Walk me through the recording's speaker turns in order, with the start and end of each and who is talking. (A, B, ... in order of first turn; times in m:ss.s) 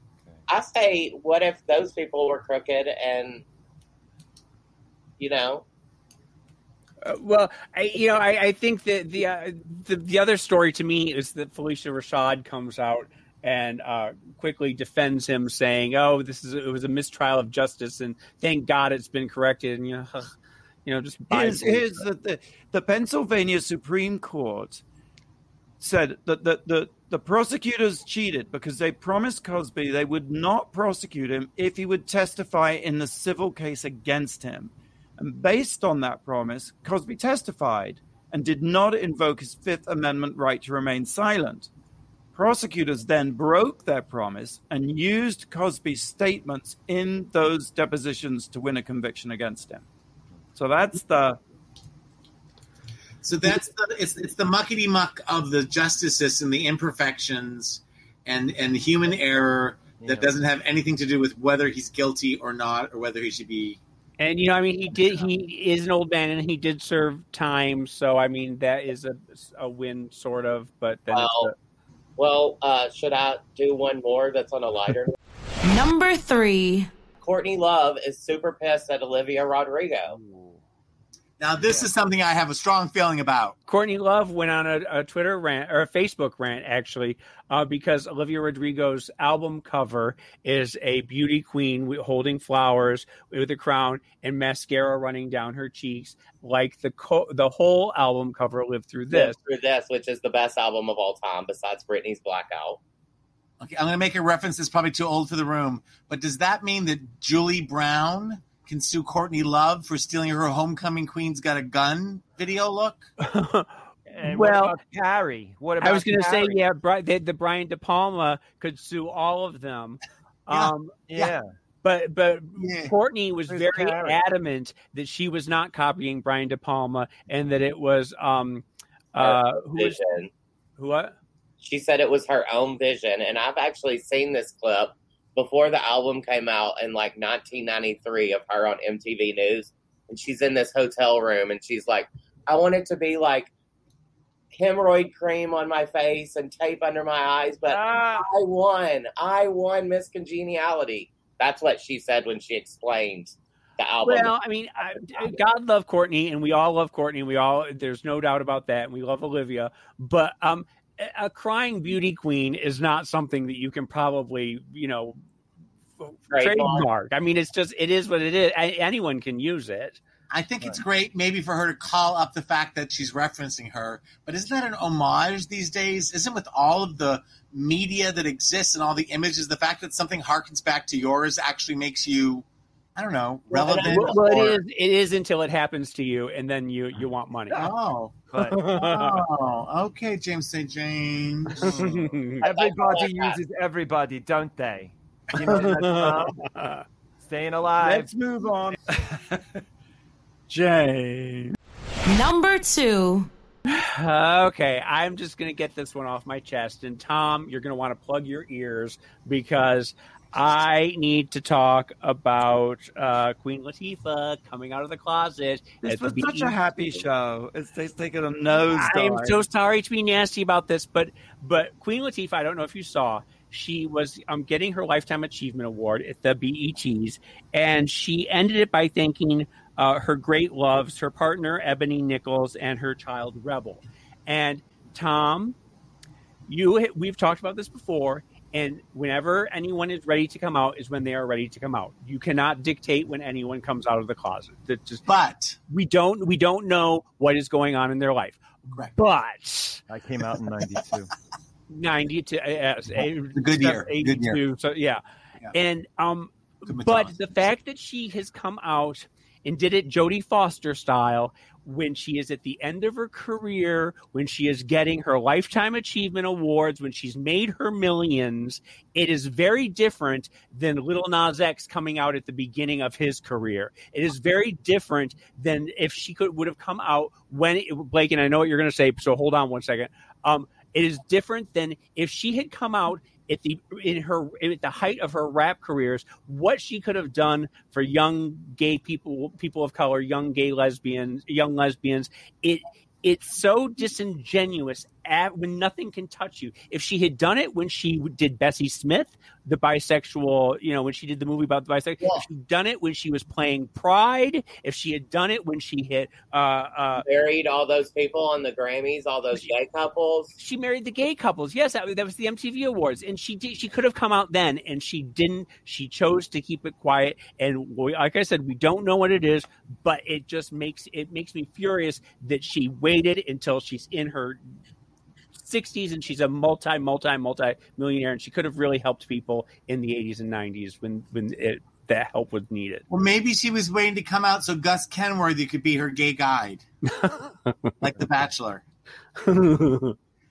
0:00.5-0:03.4 A
0:05.2-0:05.6 A
0:07.0-0:20.3 B
0:20.8-0:22.0 B
0:21.3-0:24.8 C
0:25.8-0:41.7 C
0:42.3-0:49.8 C
0:50.6-0:51.4 C
0:53.2-1:03.8 D
1:00.0-1:00.4 E
1:04.2-1:11.5 B
1:04.9-1:05.2 D
1:11.1-1:11.5 A
1:12.2-1:15.1 A
1:15.6-1:16.9 F
1:17.2-1:20.2 A
1:20.1-1:20.6 E
1:21.4-1:23.6 D
1:21.6-1:21.9 E
1:23.7-1:39.4 B
1:39.1-1:42.8 A
1:43.6-1:53.1 D
1:53.2-1:54.8 B
1:54.0-1:56.6 E
1:55.8-2:01.0 B
2:00.5-2:01.3 D
2:01.1-2:01.5 E
2:01.8-2:10.0 B
2:02.6-2:02.9 D
2:03.5-2:04.2 E
2:09.2-2:10.3 A
2:10.8-2:11.2 B
2:11.6-2:23.5 A
2:24.5-2:34.3 A
2:27.6-2:28.3 E
2:34.0-2:45.2 B
2:46.0-2:50.0 B
2:46.3-2:46.9 A
2:50.3-3:04.6 D
3:03.5-3:04.4 A
3:03.8-3:07.6 B
3:07.5-3:08.2 D
3:08.3-3:08.7 E
3:08.4-3:09.2 B
3:08.7-3:11.9 D
3:11.6-3:12.5 B
3:11.6-3:16.4 E
3:12.4-3:13.4 A
3:15.3-3:15.6 D
3:15.4-3:16.8 B
3:17.2-3:18.1 E
3:17.8-3:19.4 C
3:20.5-3:21.6 C
3:22.0-3:23.3 F
3:23.8-3:37.0 B
3:35.8-3:39.4 C
3:38.7-3:55.6 B
3:56.5-4:05.0 B
4:05.0-4:05.6 D
4:05.7-4:09.8 B
4:09.9-4:11.1 E
4:11.7-4:15.0 B
4:13.3-4:14.4 D
4:15.5-5:07.0 B
4:16.7-4:17.1 D
5:02.0-5:02.2 D
5:07.0-5:10.3 A
5:10.4-5:24.4 B
5:25.4-5:32.8 B
5:32.9-5:36.6 D
5:36.8-5:37.7 B
5:37.8-5:38.6 D
5:39.2-5:40.0 B